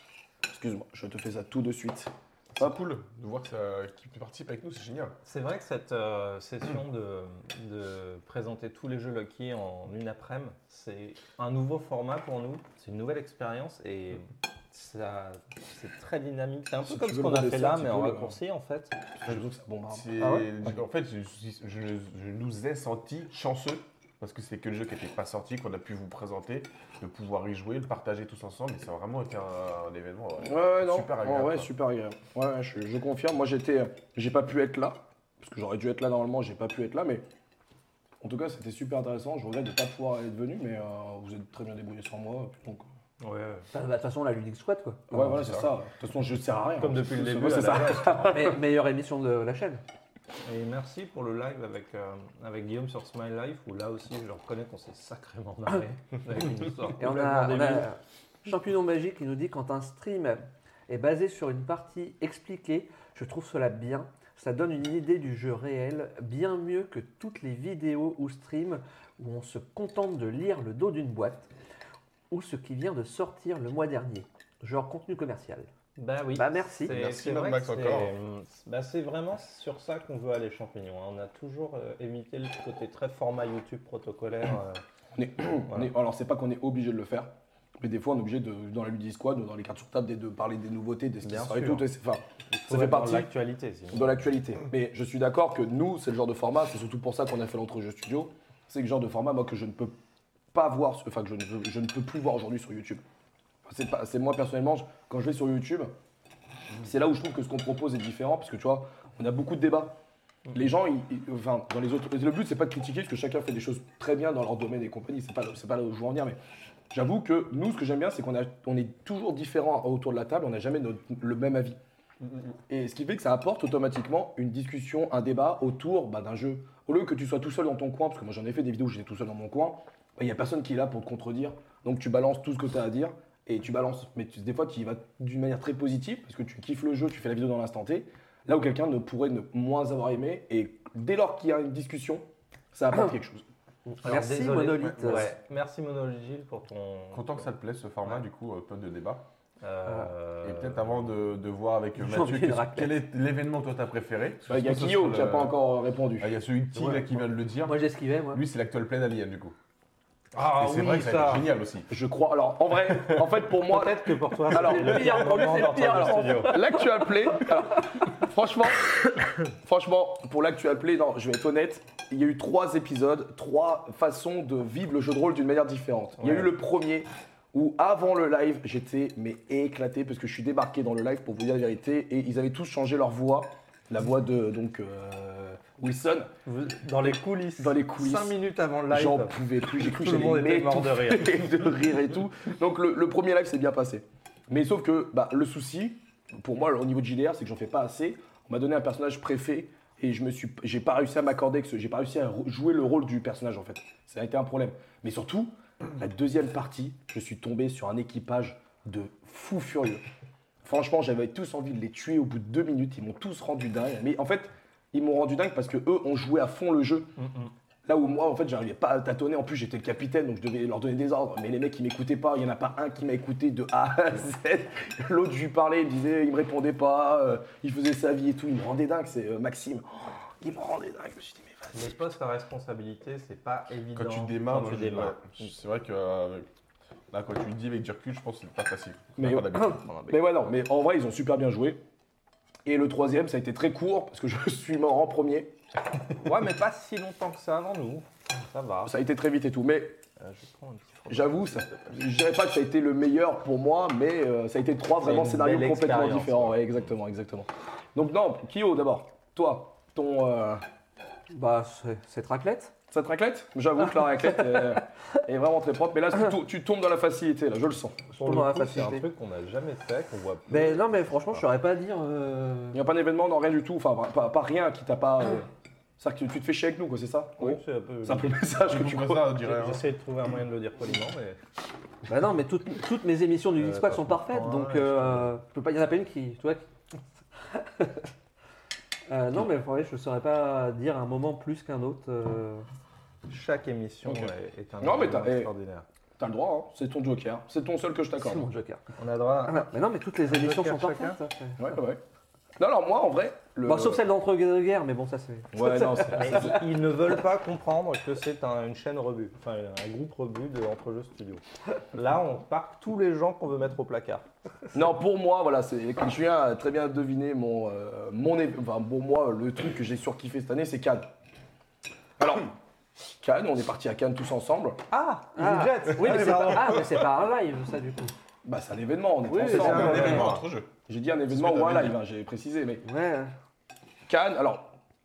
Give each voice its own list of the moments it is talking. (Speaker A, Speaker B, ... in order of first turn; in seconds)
Speaker A: 0.5-2.8, 16.8-18.4, 19.2-20.1, 30.4-37.2, 38.2-42.9, 45.1-48.6, 85.1-93.3, 93.9-99.9, 100.5-103.0, 103.7-105.9, 106.8-110.0, 110.5-116.4, 116.9-121.8, 122.7-143.4, 154.4-156.3, 161.9-186.3, 187.6-188.4, 188.9-210.0, 210.6-217.1, 217.8-232.0, 239.2-241.8, 242.6-245.5, 248.8-250.0, 251.1-260.6, 262.9-268.1, 272.7-275.5, 276.0-279.4, 294.0-295.5, 296.2-298.5, 301.6-302.0, 302.6-304.0, 305.5-306.6, 314.7-321.1, 322.2-322.5, 323.2-324.8, 328.4-332.8, 334.1-334.7
Speaker B: 2.6-5.2, 19.2-31.7, 45.4-45.6, 76.9-78.1, 122.2-122.5, 144.7-145.3, 147.1-149.2, 150.4-155.6, 156.2-159.6, 160.5-161.9, 162.9-163.2, 233.9-236.5, 237.1-239.9, 278.6-279.8, 329.4-330.7, 331.3-332.0
Speaker C: 5.2-19.0, 43.2-43.7, 46.8-48.5, 50.4-57.9, 76.0-84.8, 91.2-91.9, 92.5-94.2, 144.0-147.5, 149.6-151.1, 160.3-161.5, 163.6-166.6, 176.2-176.5, 186.4-191.7, 217.2-217.5, 231.7-235.4, 239.6-240.2, 246.2-248.9, 250.2-251.8, 255.0-256.6, 268.1-271.4, 277.4-278.4, 279.4-281.4, 283.6-285.3, 293.3-295.8, 299.0-299.7, 300.2-301.2, 306.1-314.3, 324.9-326.8, 329.3-330.4
Speaker D: 20.2-20.5, 43.7-45.1, 48.2-49.8, 57.0-71.5, 72.3-75.7, 76.3-76.9, 143.9-145.3, 151.9-152.9, 157.6-158.4, 164.5-167.5, 261.3-262.7, 268.1-269.0, 270.5-272.8, 282.1-286.6, 287.5-288.1, 289.1-292.6, 298.2-298.8, 299.4-301.8, 303.6-306.4, 325.3-328.1, 329.3-330.4, 332.8-333.3